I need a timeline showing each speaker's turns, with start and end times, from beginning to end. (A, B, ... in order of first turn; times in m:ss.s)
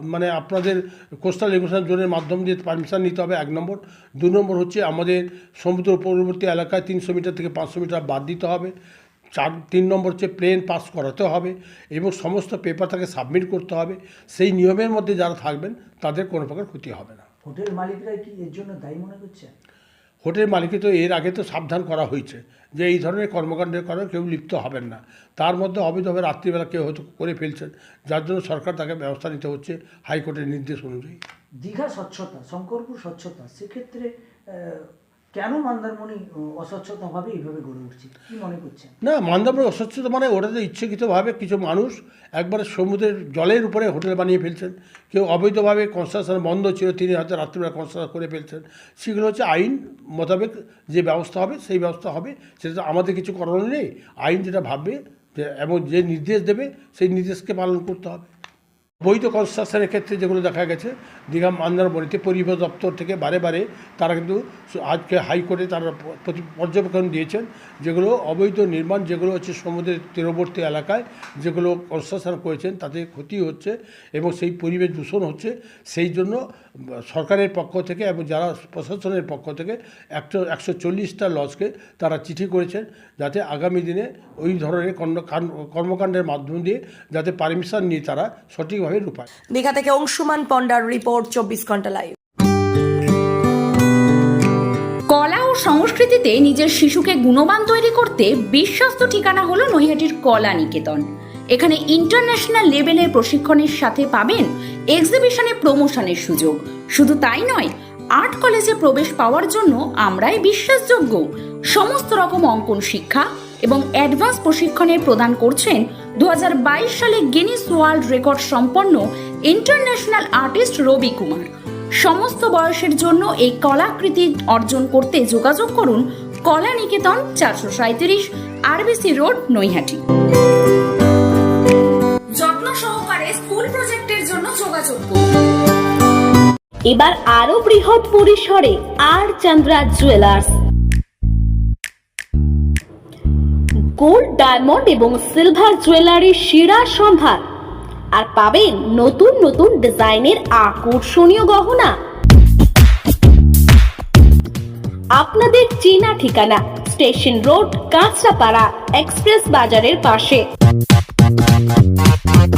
0:00.1-0:08.7 A
0:09.4-0:17.2 A
0:17.4-0:19.5 B
0:20.2-0:31.2 A
0:31.6-0:38.9 B
0:39.0-0:58.3 A
0:59.0-1:29.3 A
1:29.5-1:32.2 C
1:35.1-2:01.5 D
2:02.0-2:10.0 D
2:12.4-2:15.3 D
2:16.9-2:20.5 E
2:24.0-2:27.4 E
2:28.2-2:31.9 E
2:35.2-2:40.4 E